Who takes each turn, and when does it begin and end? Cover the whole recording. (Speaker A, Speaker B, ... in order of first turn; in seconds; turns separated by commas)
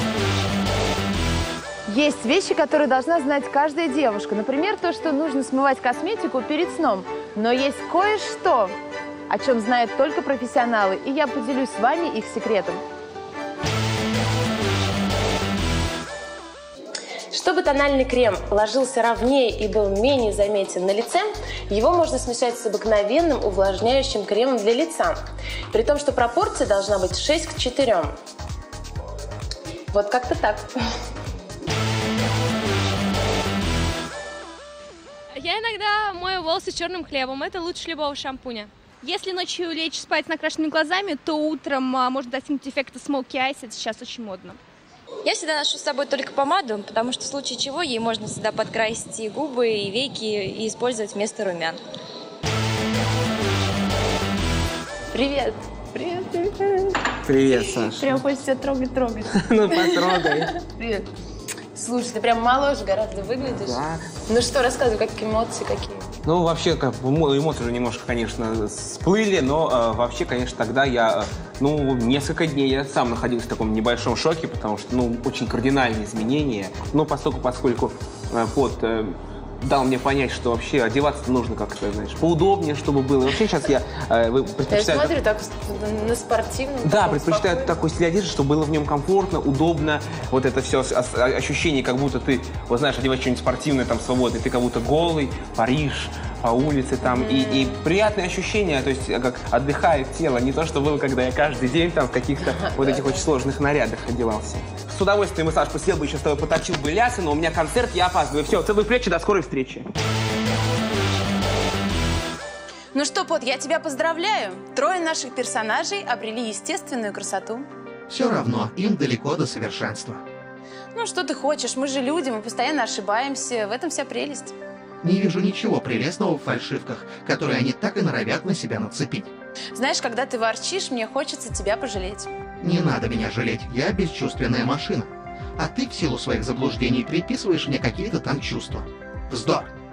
Speaker A: 1.9-8.8, Speaker A: 9.3-12.8, Speaker A: 17.3-25.2, Speaker A: 25.7-28.1, Speaker A: 29.9-30.7, Speaker B: 35.3-44.6, Speaker C: 45.2-51.8, Speaker A: 55.1-61.1, Speaker D: 57.2-58.2, Speaker D: 59.4-60.5, Speaker A: 61.8-66.1, Speaker D: 63.6-64.0, Speaker D: 66.2-85.2, Speaker A: 84.7-87.8, Speaker D: 86.8-109.9, Speaker A: 97.0-97.8, Speaker A: 102.5-103.2, Speaker A: 112.9-117.7, Speaker E: 118.1-120.2, Speaker A: 121.0-124.5, Speaker E: 125.0-129.3, Speaker A: 129.8-132.3, Speaker E: 132.6-139.7